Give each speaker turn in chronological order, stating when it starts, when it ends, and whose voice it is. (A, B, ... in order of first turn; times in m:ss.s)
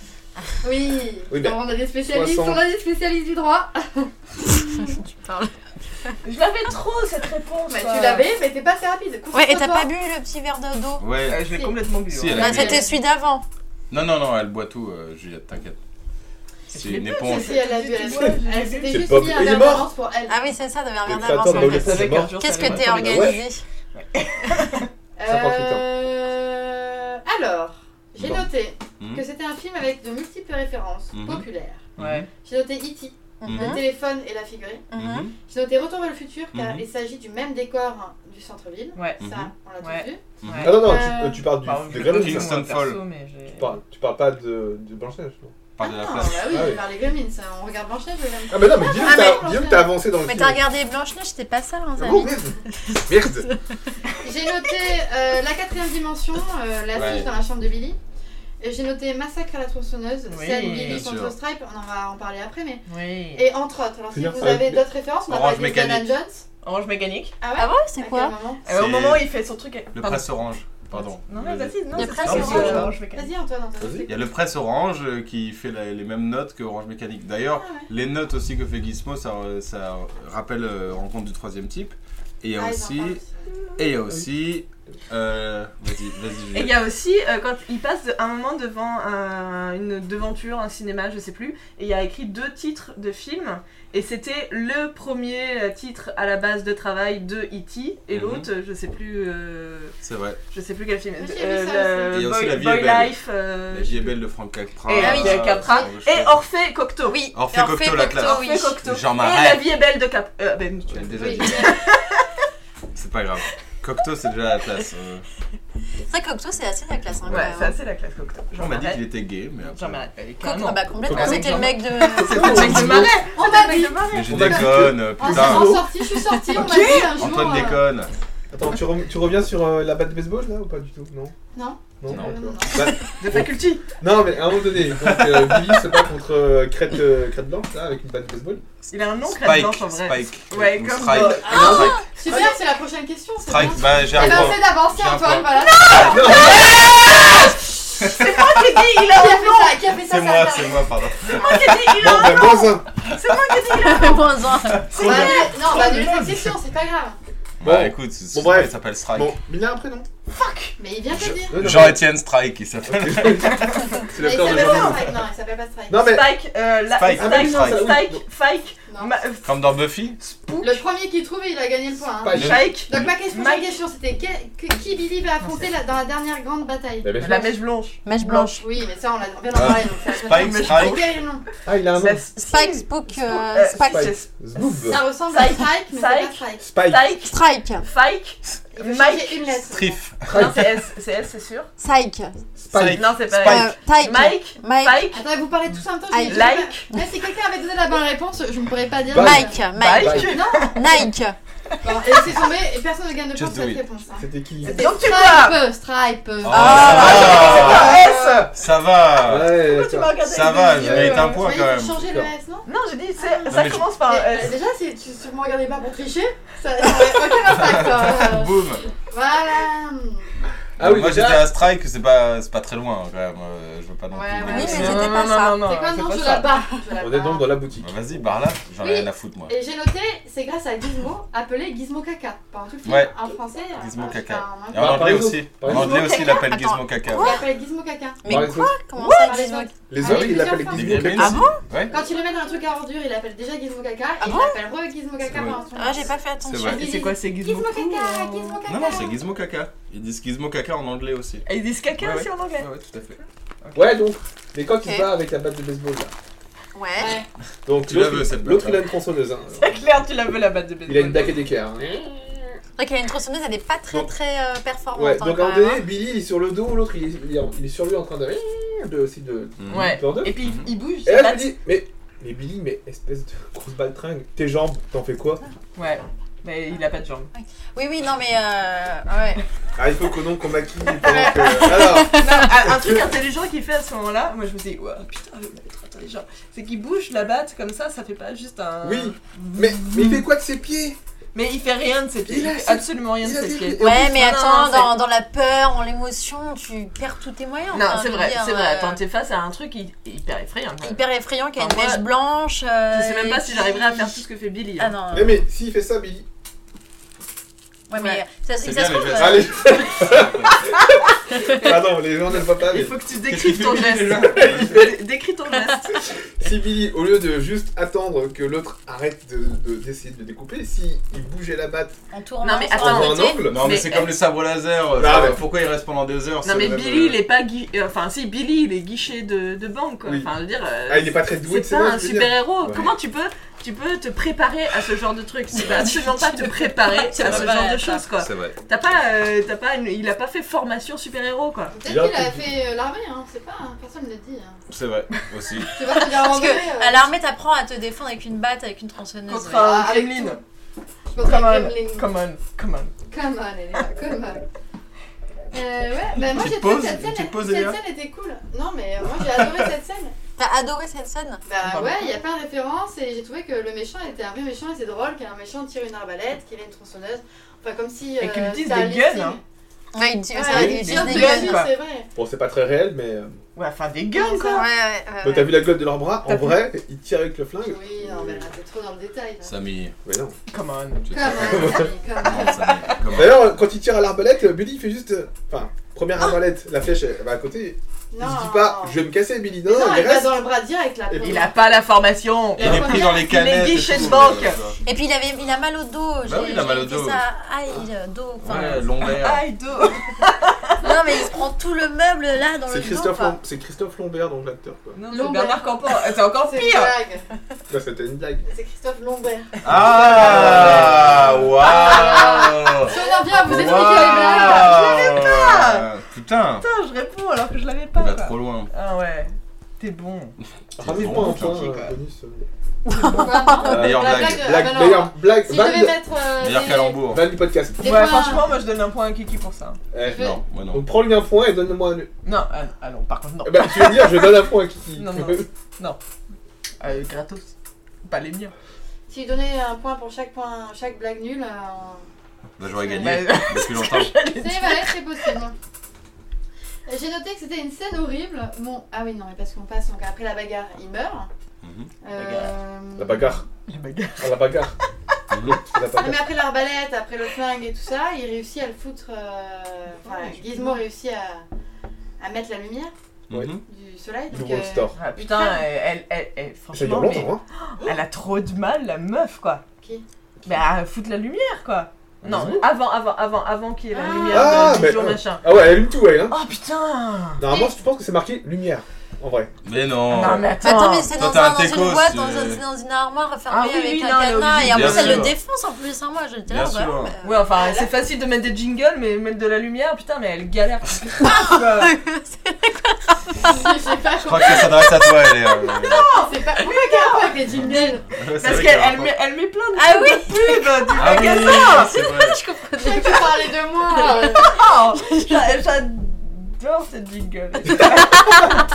0:00.6-0:04.9 A
0:01.3-0:02.6 B
0:04.9-0:05.5 C
0:06.2-0:08.2 D
0:07.7-0:09.9 A
0:09.3-0:11.0 C
0:11.0-0:11.4 E
0:11.2-0:12.8 D
0:11.5-0:11.7 A
0:12.1-0:12.9 E
0:12.3-0:13.4 C
0:12.4-0:13.0 A
0:13.9-0:15.8 E
0:16.7-0:17.6 E
0:16.7-0:19.2 D
0:17.2-0:20.5 A
0:18.9-0:19.9 B
0:20.3-0:23.6 C
0:21.0-0:23.4 B
0:21.4-0:23.4 D
0:23.9-0:24.9 D
0:25.2-0:31.8 A
0:25.3-0:25.8 B
0:31.1-0:31.4 E
0:32.0-0:32.2 E
0:32.0-0:32.3 D
0:32.4-0:34.8 A
0:33.4-0:33.8 C
0:33.4-0:33.8 E
0:34.9-0:35.3 C
0:34.9-0:35.3 E
0:35.5-0:41.5 A
0:36.5-0:36.8 E
0:38.9-0:39.2 D
0:39.2-0:39.5 E
0:39.8-0:40.8 D
0:40.4-0:40.8 E
0:40.6-0:42.5 B
0:41.6-0:43.8 D
0:42.0-0:43.0 E
0:43.5-0:45.5 B
0:45.8-0:46.5 E
0:45.8-0:49.9 A
0:46.5-0:46.8 B
0:48.5-0:50.6 B
0:49.0-0:49.5 C
0:50.2-0:53.6 C
0:52.0-0:53.5 B
0:54.2-0:58.0 A
0:56.9-0:57.3 E
0:58.6-1:06.4 A
1:00.3-1:01.0 D
1:00.6-1:01.3 E
1:02.9-1:03.4 D
1:04.1-1:04.8 B
1:05.3-1:06.0 E
1:06.6-1:07.3 D
1:07.4-1:08.6 A
1:07.5-1:08.4 C
1:08.6-1:10.3 D
1:08.7-1:09.2 E
1:09.9-1:12.9 E
1:10.9-1:13.3 D
1:11.9-1:13.0 C
1:12.4-1:14.3 A
1:13.8-1:14.1 B
1:14.1-1:23.2 E
1:17.5-1:17.9 A
1:22.5-1:23.4 A
1:23.5-1:23.8 D
1:23.8-1:26.8 E
1:26.5-1:39.9 D
1:38.1-1:38.5 E
1:40.0-1:40.4 E
1:40.5-1:44.2 D
1:41.2-1:42.2 A
1:42.1-1:43.2 E
1:43.7-1:46.4 E
1:44.9-1:47.2 D
1:44.9-1:45.7 C
1:47.0-1:48.8 C
1:47.3-1:49.7 E
1:48.1-1:52.2 D
1:50.9-1:51.7 E
1:51.2-1:51.8 A
1:52.9-1:55.2 E
1:56.1-1:57.8 C
1:57.2-1:59.0 D
1:58.6-2:00.0 E
1:59.7-2:04.3 D
2:00.4-2:03.0 C
2:01.0-2:03.2 B
2:03.3-2:07.8 A
2:04.1-2:05.8 E
2:04.3-2:05.9 B
2:06.5-2:07.2 D
2:06.8-2:08.1 E
2:08.5-2:11.3 B
2:11.5-2:12.8 A
2:12.0-2:18.6 B
2:12.8-2:13.9 D
2:14.9-2:15.8 E
2:18.8-2:22.0 E
2:18.9-2:22.5 D
2:21.4-2:27.3 A
2:21.4-2:21.8 B
2:21.6-2:22.0 C
2:23.4-2:25.5 E
2:24.1-2:24.5 B
2:26.0-2:27.0 B
2:26.2-2:27.5 D
2:28.0-2:28.4 E
2:28.0-2:29.8 D
2:29.0-2:30.9 A
2:30.0-2:31.8 E
2:31.3-2:34.3 D
2:32.0-2:32.8 B
2:32.4-2:32.7 C
2:33.7-2:35.4 C
2:34.9-2:36.2 D
2:34.9-2:37.2 A
2:35.4-2:35.8 B
2:37.6-2:39.4 E
2:37.6-2:40.1 B
2:40.3-2:40.8 D
2:40.8-2:41.7 A
2:41.1-2:43.8 E
2:41.5-2:42.1 B
2:42.8-2:45.1 B
2:43.4-2:45.0 D
2:44.2-2:46.2 A
2:45.9-2:46.3 B
2:46.0-2:49.5 D
2:46.9-2:47.9 E
2:47.1-2:48.2 B
2:48.9-2:49.1 A
2:49.4-2:50.2 E
2:50.2-2:50.8 D
2:50.6-2:57.2 A
2:52.2-2:52.8 B
2:52.3-2:53.1 E
2:52.3-2:53.8 D
2:55.4-2:55.7 D
2:57.0-2:57.6 B
2:57.2-2:58.5 D
2:58.0-2:58.7 C
2:58.5-3:01.4 A
2:59.5-3:01.1 E
3:00.1-3:01.0 D
3:01.6-3:02.2 B
3:02.0-3:09.6 D
3:02.4-3:04.2 C
3:03.9-3:05.0 B
3:04.8-3:06.7 A
3:06.6-3:07.1 B
3:07.2-3:07.9 C
3:08.7-3:10.0 A
3:09.7-3:10.3 E
3:10.2-3:10.7 B
3:10.3-3:11.7 D
3:11.8-3:12.4 C
3:12.6-3:13.2 B
3:12.7-3:13.7 E
3:12.8-3:15.2 D
3:13.4-3:15.2 C
3:15.1-3:19.6 A
3:16.1-3:17.0 C
3:16.2-3:16.9 D
3:19.1-3:20.3 B
3:19.1-3:21.4 C
3:19.7-3:21.1 D
3:20.1-3:21.1 A
3:21.7-3:22.1 D
3:21.8-3:28.5 A
3:23.3-3:23.8 E
3:24.2-3:24.8 B
3:24.6-3:25.6 D
3:26.4-3:29.6 E
3:26.5-3:27.6 C
3:26.6-3:28.5 D
3:29.2-3:31.3 B
3:29.4-3:31.3 D
3:30.2-3:32.1 E
3:30.9-3:40.3 A
3:32.0-3:32.3 B
3:32.6-3:34.5 D
3:33.5-3:33.9 E
3:37.4-3:38.9 E
3:40.8-3:41.6 B
3:40.8-3:45.1 E
3:44.1-3:47.5 A
3:44.4-3:45.7 C
3:44.7-3:46.5 D
3:47.0-3:47.9 B
3:47.8-3:49.5 E
3:48.8-3:55.2 A
3:52.8-3:57.4 E
3:54.7-3:56.0 B
3:55.7-3:56.5 D
3:55.9-3:57.4 C
3:57.2-4:01.1 A
3:58.2-3:59.7 C
3:58.2-3:58.7 B
3:59.0-3:59.3 D
3:59.9-4:01.5 B
4:00.6-4:01.9 E
4:01.1-4:01.6 C
4:01.9-4:09.2 A
4:04.2-4:04.6 C
4:05.3-4:05.6 E
4:05.7-4:06.8 C
4:06.4-4:06.8 E
4:06.7-4:08.6 D
4:08.7-4:11.4 E
4:11.4-4:12.7 D
4:12.0-4:13.2 E
4:13.6-4:13.9 D
4:13.7-4:16.1 B
4:14.8-4:15.1 C
4:16.7-4:17.2 C
4:17.0-4:17.3 A
4:17.6-4:19.8 B
4:17.8-4:18.8 E
4:19.6-4:21.4 D
4:20.8-4:22.6 B
4:22.8-4:25.8 C
4:24.9-4:30.4 B
4:29.6-4:30.7 E
4:29.7-4:31.6 D
4:31.0-4:35.4 B
4:35.8-4:37.3 D
4:37.4-4:39.4 C
4:39.8-4:43.1 B
4:41.1-4:41.9 A
4:41.2-4:42.5 C
4:42.1-4:50.2 D
4:48.8-4:51.0 B
4:51.3-4:54.9 D
4:52.2-4:54.2 B
4:53.8-4:59.0 C
4:57.7-5:01.0 D
5:00.8-5:04.2 C
5:01.6-5:02.0 D
5:02.9-5:04.9 D
5:04.8-5:05.4 C
5:05.1-5:06.2 B
5:07.9-5:09.8 C
5:08.6-5:10.8 E
5:09.2-5:10.8 B
5:11.5-5:13.0 B
5:12.6-5:16.0 D
5:13.3-5:14.8 E
5:14.3-5:14.9 B
5:16.4-5:22.0 B
5:22.1-5:23.5 C
5:22.4-5:24.1 D
5:22.8-5:23.7 B
5:23.5-5:27.2 E
5:25.0-5:25.4 B
5:26.4-5:41.7 D
5:30.0-5:30.3 B
5:30.9-5:32.9 B
5:35.6-5:38.1 C
5:37.2-5:37.6 E
5:38.2-5:38.6 E
5:41.7-5:44.6 A
5:41.8-5:42.4 B
5:44.7-5:45.7 E
5:45.8-5:47.1 A
5:46.0-5:49.8 C
5:49.3-5:50.4 D
5:49.5-5:50.4 A
5:51.1-5:52.1 A
5:51.2-5:52.9 D
5:53.1-5:54.4 A
5:55.5-6:00.1 A
5:56.2-5:57.8 E
6:00.4-6:01.4 C
6:01.4-6:09.4 A
6:01.6-6:02.2 D
6:08.2-6:09.4 D
6:09.9-6:11.7 C
6:10.3-6:12.1 A
6:10.4-6:11.7 D
6:12.2-6:13.4 B
6:13.5-6:14.7 D
6:14.1-6:15.6 C
6:15.2-6:18.5 B
6:16.2-6:16.7 D
6:17.7-6:19.5 A
6:19.4-6:19.9 E
6:20.0-6:20.4 B
6:20.5-6:21.3 D
6:21.1-6:23.5 E
6:21.1-6:23.0 A
6:21.4-6:21.9 B
6:23.1-6:30.4 B
6:28.1-6:29.0 A
6:29.7-6:31.5 A
6:31.1-6:31.5 B
6:31.2-6:34.6 D
6:32.6-6:33.2 A
6:32.6-6:34.8 E
6:34.8-6:38.8 C
6:36.2-6:37.2 E
6:38.4-6:39.4 E
6:38.5-6:40.7 D
6:40.8-6:43.4 C
6:42.7-6:45.0 B
6:44.9-6:46.9 D
6:45.1-6:47.2 A
6:47.7-6:48.4 B
6:48.4-6:50.8 A
6:49.6-6:56.6 E
6:49.7-6:51.5 B
6:51.6-6:54.9 A
6:53.0-6:55.9 D
6:56.6-7:00.3 D
6:58.0-6:58.7 E
7:00.8-7:01.9 E
7:00.8-7:02.4 B
7:01.1-7:01.9 D
7:02.9-7:03.8 C
7:03.0-7:03.5 D
7:03.1-7:07.0 A
7:03.6-7:06.0 B
7:03.7-7:04.7 E
7:06.4-7:07.3 E
7:07.1-7:08.2 B
7:07.8-7:08.6 A
7:07.8-7:09.8 D
7:09.9-7:12.1 B
7:10.0-7:10.4 A
7:10.0-7:10.9 E
7:12.2-7:14.4 D
7:13.4-7:15.5 B
7:15.0-7:16.0 D
7:16.8-7:17.5 D
7:18.0-7:18.5 D
7:19.1-7:22.0 A
7:22.6-7:24.2 E
7:22.7-7:23.2 A
7:23.0-7:25.3 D
7:24.3-7:25.5 A
7:26.9-7:31.3 A
7:31.6-7:31.9 E
7:32.0-7:33.4 A
7:32.1-7:32.5 D
7:33.0-7:33.4 B
7:33.7-7:34.8 D
7:34.2-7:34.8 B
7:35.3-7:35.6 E
7:35.3-7:36.2 B
7:35.9-7:41.4 A
7:40.0-7:40.8 D
7:42.2-7:42.9 A
7:43.3-7:43.6 E
7:43.3-7:43.6 B
7:43.7-7:45.7 A
7:44.3-7:45.0 B
7:45.0-7:49.6 D
7:46.7-7:47.4 B
7:50.4-7:55.6 D
7:52.2-7:52.7 B
7:53.9-7:55.0 A
7:54.3-7:56.4 B
7:56.3-7:57.4 D
7:57.4-7:59.5 B
7:57.4-7:57.8 A
7:59.6-8:00.6 E
8:00.1-8:01.2 D
8:00.6-8:07.4 C
8:01.1-8:02.6 E
8:03.5-8:05.3 D
8:04.5-8:05.4 E
8:06.5-8:07.1 E
8:07.2-8:11.9 D
8:07.5-8:07.9 A
8:11.2-8:13.7 C
8:13.5-8:14.9 A
8:14.2-8:16.1 E
8:15.8-8:21.9 D
8:15.9-8:18.0 A
8:18.1-8:19.1 E
8:19.8-8:24.3 C
8:20.9-8:22.4 E
8:22.8-8:24.6 A
8:24.3-8:28.3 D
8:25.0-8:25.4 C